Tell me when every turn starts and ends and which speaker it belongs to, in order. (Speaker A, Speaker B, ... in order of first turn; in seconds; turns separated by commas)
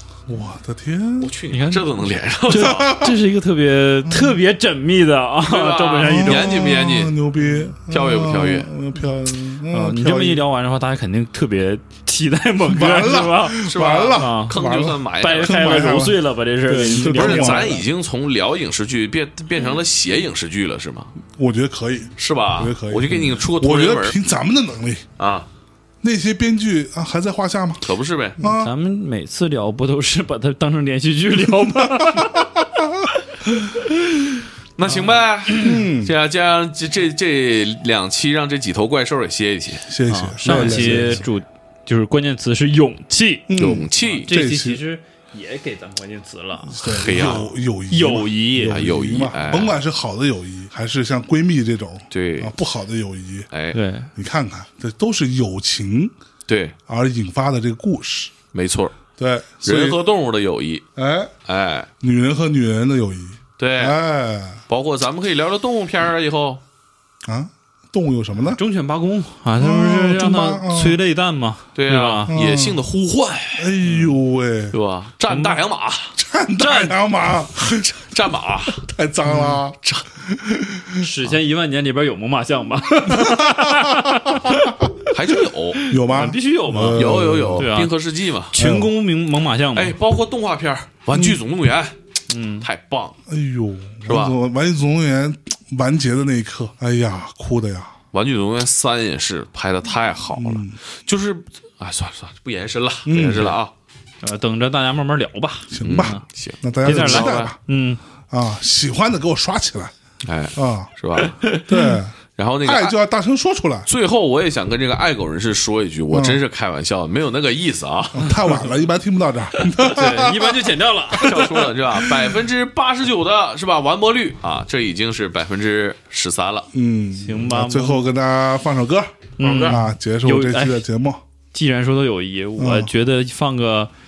Speaker A: 0.3-1.3, Speaker B: 1.2-3.0, Speaker C: 1.5-1.9, Speaker C: 2.5-6.6, Speaker A: 2.5-3.2, Speaker A: 4.0-4.4, Speaker B: 5.5-7.2, Speaker A: 6.0-10.4, Speaker C: 7.4-7.7, Speaker B: 7.9-8.7, Speaker C: 9.7-13.6, Speaker A: 12.7-17.8, Speaker B: 13.6-15.6, Speaker C: 14.2-14.6, Speaker C: 15.2-17.8, Speaker B: 17.0-21.1, Speaker A: 21.3-25.1, Speaker B: 22.2-24.2, Speaker B: 25.2-25.5, Speaker A: 26.0-27.9, Speaker B: 27.8-28.4, Speaker A: 28.4-28.7, Speaker C: 28.4-32.6, Speaker A: 32.0-32.3, Speaker B: 34.8-39.9, Speaker A: 34.9-36.1, Speaker A: 39.9-41.2, Speaker C: 40.1-43.5, Speaker B: 40.5-41.2, Speaker A: 43.5-44.8, Speaker B: 43.6-44.3, Speaker C: 44.3-46.8, Speaker A: 46.7-53.5, Speaker B: 46.8-47.5, Speaker C: 47.9-48.8, Speaker B: 48.7-49.8, Speaker B: 52.1-52.5, Speaker B: 53.5-53.8, Speaker C: 53.7-54.1, Speaker A: 54.2-56.1, Speaker B: 56.5-56.8, Speaker A: 56.9-58.3, Speaker B: 58.5-58.9, Speaker A: 59.2-60.0, Speaker B: 59.6-60.8, Speaker A: 61.0-61.3, Speaker B: 61.5-61.9, Speaker A: 62.0-64.6, Speaker B: 63.6-64.0, Speaker B: 64.7-66.6, Speaker A: 67.2-68.6, Speaker C: 68.5-72.3, Speaker A: 69.6-71.0, Speaker B: 71.8-73.7, Speaker A: 72.3-72.8, Speaker A: 73.6-74.8, Speaker C: 73.8-74.1, Speaker B: 74.7-76.2, Speaker C: 75.3-75.6, Speaker A: 76.2-78.0, Speaker C: 76.6-77.0, Speaker B: 77.8-78.8, Speaker A: 78.8-81.0, Speaker C: 79.3-79.6, Speaker C: 81.0-85.1, Speaker A: 83.1-84.8, Speaker B: 85.1-85.8, Speaker C: 85.8-87.9, Speaker A: 85.9-87.7, Speaker B: 86.9-88.5, Speaker C: 88.5-90.0, Speaker A: 88.5-88.9, Speaker B: 89.8-92.0, Speaker A: 91.1-91.4, Speaker C: 92.3-92.7, Speaker B: 92.6-93.2, Speaker A: 93.3-98.0, Speaker B: 94.1-94.3, Speaker B: 98.1-103.7, Speaker A: 100.3-100.8, Speaker A: 103.1-103.6, Speaker C: 104.2-106.2, Speaker A: 105.7-107.6, Speaker B: 105.8-107.5, Speaker C: 106.8-108.0, Speaker A: 108.3-109.9, Speaker B: 110.2-111.5, Speaker A: 110.5-110.9, Speaker A: 111.7-113.9, Speaker B: 112.3-113.0, Speaker B: 113.9-118.3, Speaker A: 116.1-116.4, Speaker A: 118.1-121.7, Speaker C: 119.9-121.7, Speaker B: 121.2-126.7, Speaker A: 126.7-131.2, Speaker C: 127.2-128.1, Speaker C: 129.4-130.8, Speaker B: 129.4-129.8, Speaker C: 131.5-133.9, Speaker A: 132.6-132.9